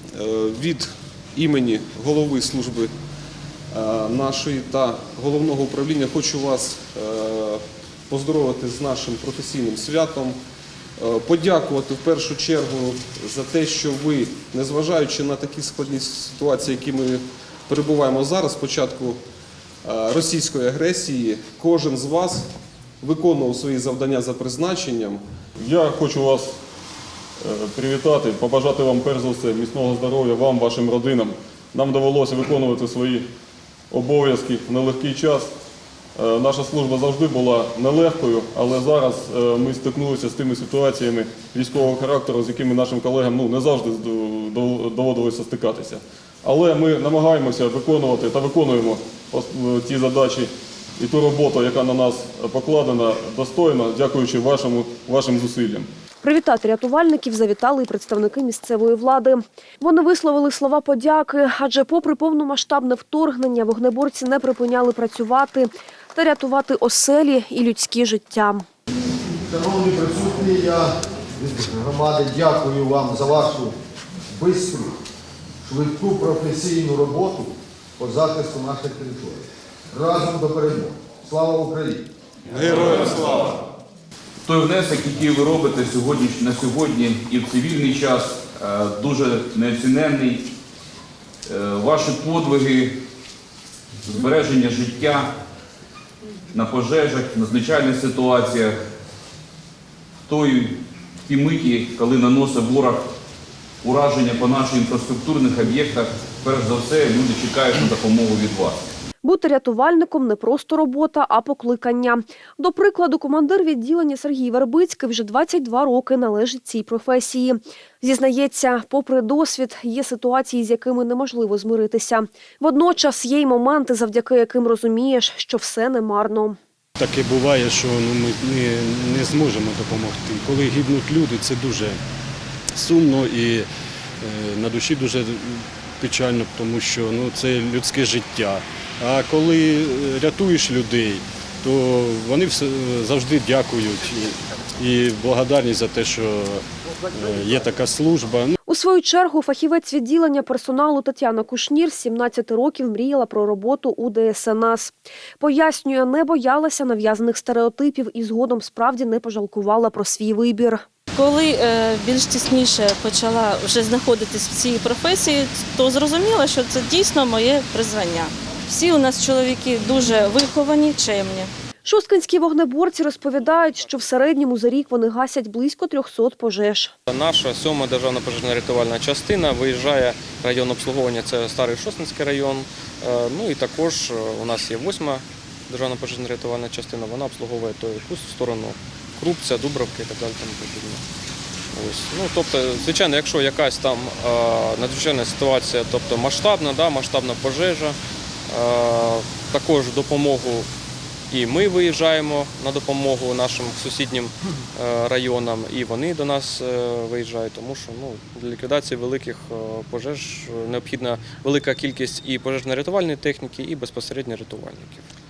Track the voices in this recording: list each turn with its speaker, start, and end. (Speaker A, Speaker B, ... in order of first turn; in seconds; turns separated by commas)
Speaker A: 0.1-2.9, Speaker A: 3.7-10.4, Speaker A: 11.0-19.2, Speaker A: 19.8-22.5, Speaker A: 23.0-25.2, Speaker B: 25.7-26.5, Speaker B: 27.4-33.2, Speaker B: 33.9-35.5, Speaker B: 36.2-55.9, Speaker C: 56.2-68.6, Speaker D: 69.5-73.7, Speaker D: 74.3-74.9, Speaker D: 75.6-82.0, Speaker E: 82.6-83.3, Speaker A: 83.0-83.5, Speaker E: 84.4-90.5, Speaker E: 91.5-92.9, Speaker E: 94.0-95.3, Speaker E: 96.5-98.7, Speaker E: 100.3-103.0, Speaker E: 103.8-108.8, Speaker C: 109.2-126.6, Speaker F: 127.0-132.0, Speaker F: 132.7-133.7, Speaker F: 134.2-148.6, Speaker C: 148.7-160.8, Speaker G: 161.2-171.5, Speaker C: 171.8-176.9, Speaker H: 177.1-191.0, Speaker H: 191.7-198.0, Speaker H: 198.5-200.7, Speaker H: 201.3-215.0